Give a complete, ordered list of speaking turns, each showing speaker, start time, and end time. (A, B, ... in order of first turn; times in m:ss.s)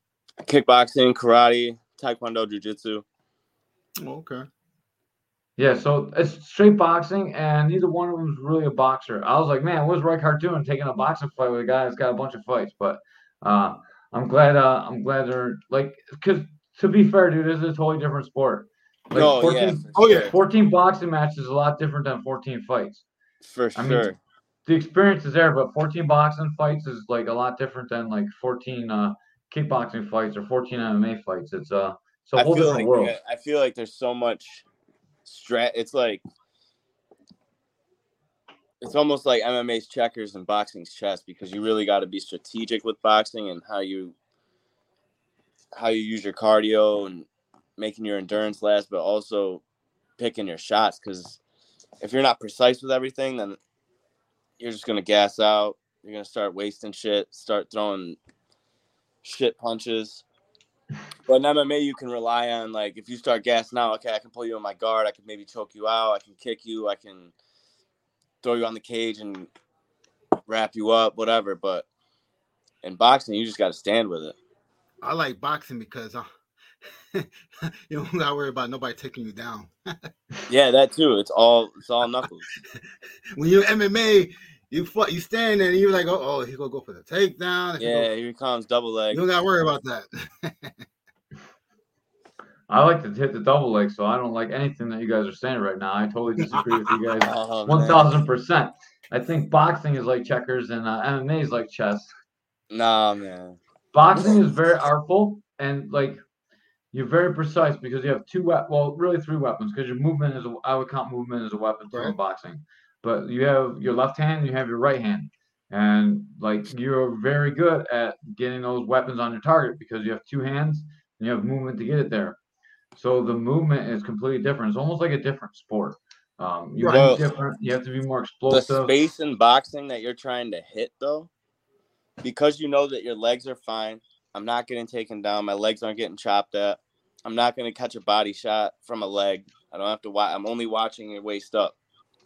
0:00.4-0:03.0 A
0:04.0-0:04.4 B
0:05.6-0:23.0 C
0:19.1-0:20.3 A
0:19.9-0:20.3 B
0:23.4-0:24.2 A
0:23.7-0:24.1 C
0:24.6-0:33.2 C
0:32.3-0:34.6 A
0:35.2-0:36.2 A
0:38.8-0:44.1 A
0:45.7-0:47.3 A
0:47.8-0:49.6 A
0:50.2-0:51.4 A
0:52.0-0:53.6 A
0:54.6-0:58.2 A
0:59.2-1:00.2 A
1:01.3-1:07.3 A
1:08.4-1:09.5 A
1:10.5-1:11.8 A
1:12.8-1:14.4 A
1:15.0-1:16.2 B
1:17.1-1:20.1 B
1:20.5-1:22.5 A
1:23.4-1:28.1 B
1:27.8-1:29.2 A
1:29.1-1:30.7 B
1:32.7-1:42.1 C
1:37.2-1:38.2 A
1:42.7-1:43.6 A
1:43.9-1:46.2 C
1:46.9-2:02.4 C
2:02.9-2:08.9 C
2:06.8-2:07.2 B
2:06.9-2:07.2 A
2:08.5-2:11.3 A
2:12.2-2:21.8 A